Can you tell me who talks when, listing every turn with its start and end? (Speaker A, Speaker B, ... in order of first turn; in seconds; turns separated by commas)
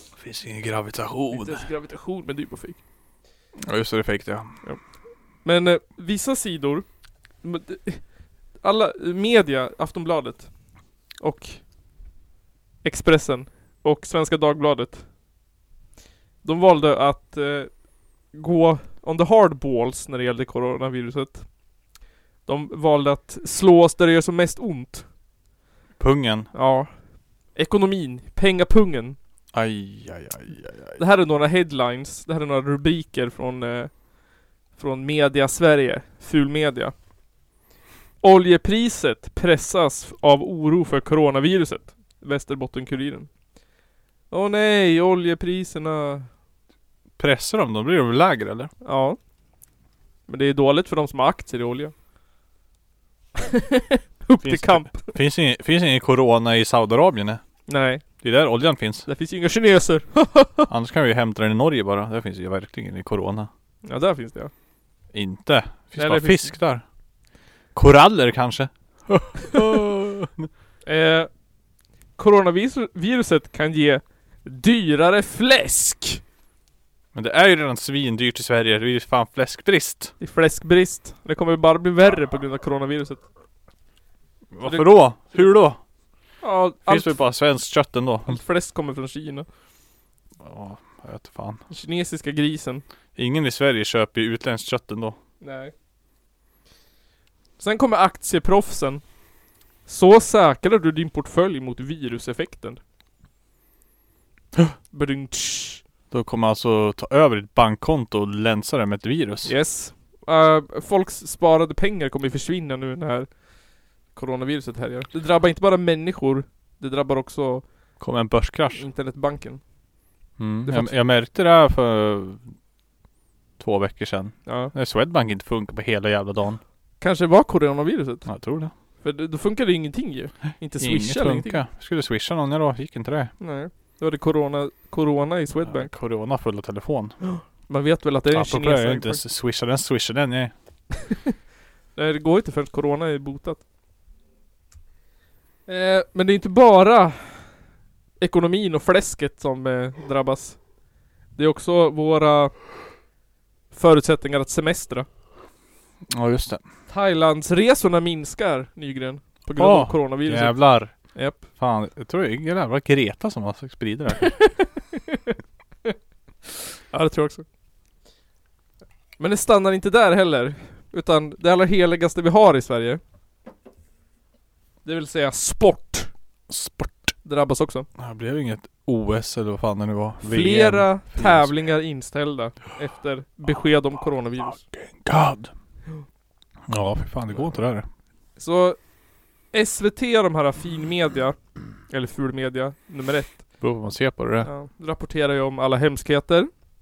Speaker A: 0.2-1.6, Speaker B: 1.3-2.8, Speaker A: 3.6-4.6, Speaker B: 4.6-6.9, Speaker B: 7.4-11.6, Speaker B: 12.8-15.1, Speaker B: 16.4-21.5, Speaker B: 22.5-25.1, Speaker A: 26.0-26.5, Speaker B: 26.5-29.2, Speaker A: 29.5-31.0, Speaker B: 31.0-34.0, Speaker B: 34.7-36.9, Speaker B: 38.2-43.3, Speaker B: 44.3-46.3, Speaker A: 47.2-48.7, Speaker B: 48.8-49.2, Speaker B: 50.3-51.9, Speaker B: 53.5-55.2, Speaker A: 54.4-57.4, Speaker B: 57.7-58.0, Speaker A: 58.2-59.1, Speaker B: 59.1-60.7, Speaker A: 60.7-63.5, Speaker B: 63.9-64.5, Speaker A: 65.1-66.8, Speaker B: 66.0-66.6, Speaker A: 67.7-70.5, Speaker B: 70.8-71.3, Speaker B: 72.2-76.2, Speaker A: 77.1-80.1, Speaker B: 80.2-83.2, Speaker A: 84.5-85.8, Speaker B: 84.6-85.6, Speaker B: 86.4-87.2, Speaker A: 86.8-88.4, Speaker B: 88.3-89.5, Speaker A: 90.4-91.6, Speaker B: 91.7-92.8, Speaker A: 93.2-95.2, Speaker B: 95.4-95.7, Speaker B: 97.6-99.0, Speaker B: 99.9-102.8, Speaker B: 104.9-105.8, Speaker A: 106.1-109.5, Speaker B: 109.5-113.5, Speaker B: 114.1-117.7, Speaker A: 118.0-118.9, Speaker B: 118.7-119.6, Speaker A: 120.4-122.5, Speaker B: 120.7-121.0, Speaker A: 123.6-126.6, Speaker B: 124.5-124.7, Speaker B: 127.0-131.6, Speaker A: 128.3-128.7, Speaker A: 130.7-133.3, Speaker B: 133.4-135.9, Speaker A: 135.6-137.2, Speaker B: 137.2-139.2, Speaker A: 138.3-140.5, Speaker B: 141.9-143.6, Speaker B: 145.7-147.6, Speaker B: 148.2-150.7, Speaker B: 151.3-152.6, Speaker B: 153.7-155.1, Speaker A: 156.1-156.6, Speaker B: 156.9-161.4, Speaker A: 159.6-164.4, Speaker B: 164.4-165.3, Speaker B: 166.9-167.4, Speaker B: 169.2-173.0, Speaker B: 174.8-176.1, Speaker A: 176.5-177.2, Speaker B: 177.2-177.9, Speaker A: 178.0-181.7, Speaker B: 180.2-184.6, Speaker A: 183.5-185.5, Speaker A: 186.7-187.9, Speaker B: 188.4-188.8, Speaker B: 189.5-193.6, Speaker A: 193.6-194.5, Speaker B: 194.4-196.5